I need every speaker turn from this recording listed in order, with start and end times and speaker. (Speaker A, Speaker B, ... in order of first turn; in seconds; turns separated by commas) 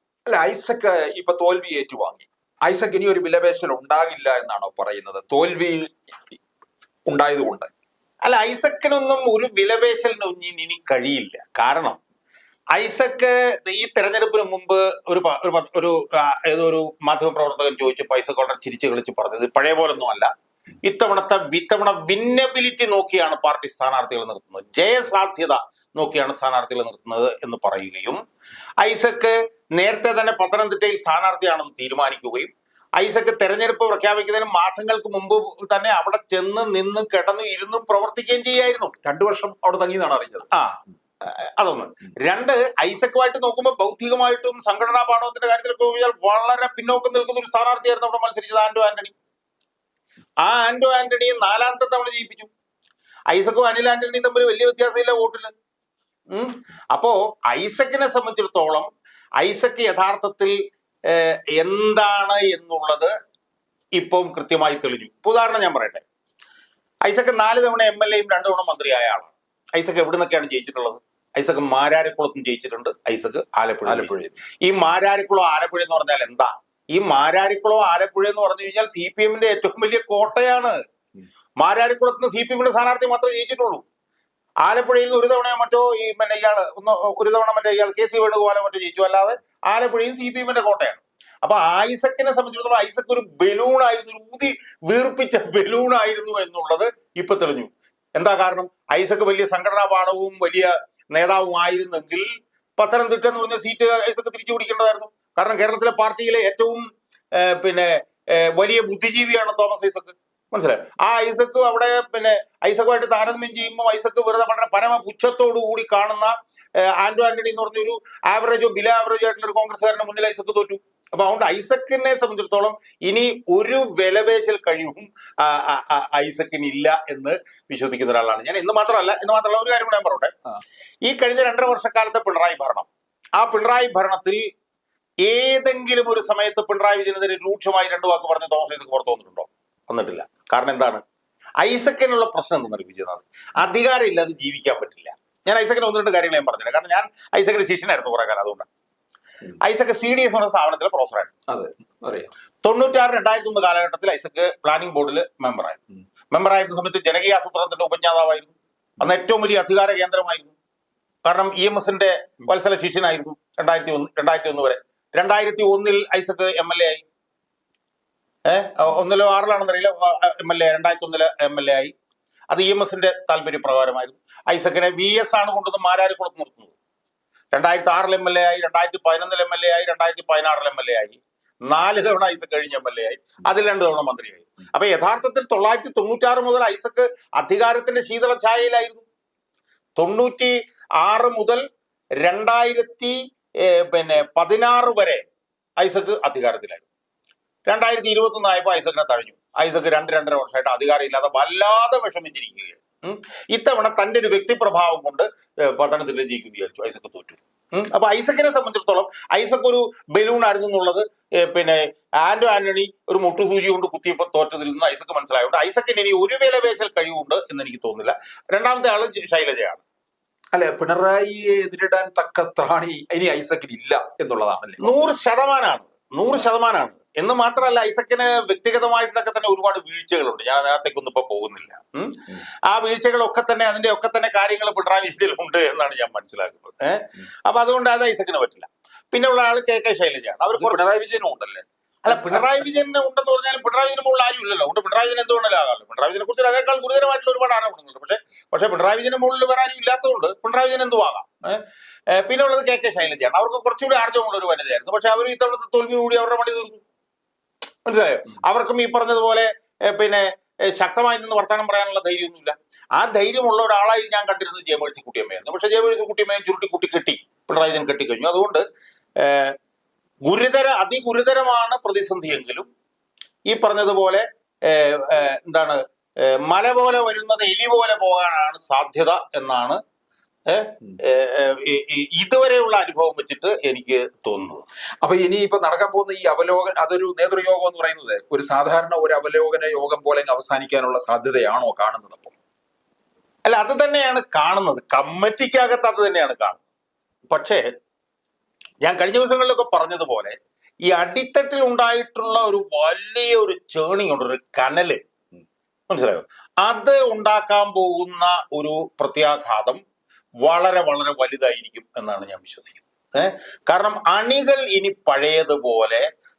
Speaker A: 0.3-5.9, Speaker A: 7.1-7.7, Speaker B: 8.2-12.0, Speaker B: 12.7-20.3, Speaker B: 20.8-28.2, Speaker B: 28.8-38.9, Speaker A: 39.0-40.5, Speaker B: 40.5-49.1, Speaker B: 50.4-52.5, Speaker B: 53.3-55.5, Speaker B: 56.3-58.9, Speaker B: 59.4-60.6, Speaker B: 61.1-63.1, Speaker B: 64.0-66.0, Speaker B: 67.0-80.8, Speaker A: 73.9-74.4, Speaker B: 81.6-83.8, Speaker B: 84.6-102.3, Speaker B: 102.8-130.3, Speaker B: 131.1-132.9, Speaker B: 133.4-134.4, Speaker B: 135.2-141.0, Speaker B: 141.6-148.7, Speaker B: 149.6-151.3, Speaker A: 151.5-152.3, Speaker B: 152.6-160.6, Speaker B: 161.3-167.0, Speaker B: 168.5-171.9, Speaker B: 172.5-176.8, Speaker B: 177.5-189.1, Speaker B: 190.0-191.6, Speaker B: 192.2-195.2, Speaker B: 195.8-196.9, Speaker B: 197.7-219.8, Speaker A: 220.5-225.0, Speaker B: 224.8-232.2, Speaker B: 232.7-240.8, Speaker A: 240.5-242.5, Speaker B: 242.1-256.8, Speaker B: 257.9-268.6, Speaker B: 269.2-269.6, Speaker B: 270.3-272.7, Speaker B: 273.5-279.8, Speaker B: 280.5-284.6, Speaker A: 285.0-292.4, Speaker B: 293.5-296.7, Speaker B: 297.3-297.6, Speaker B: 298.8-305.0, Speaker B: 305.9-309.8, Speaker B: 310.4-316.1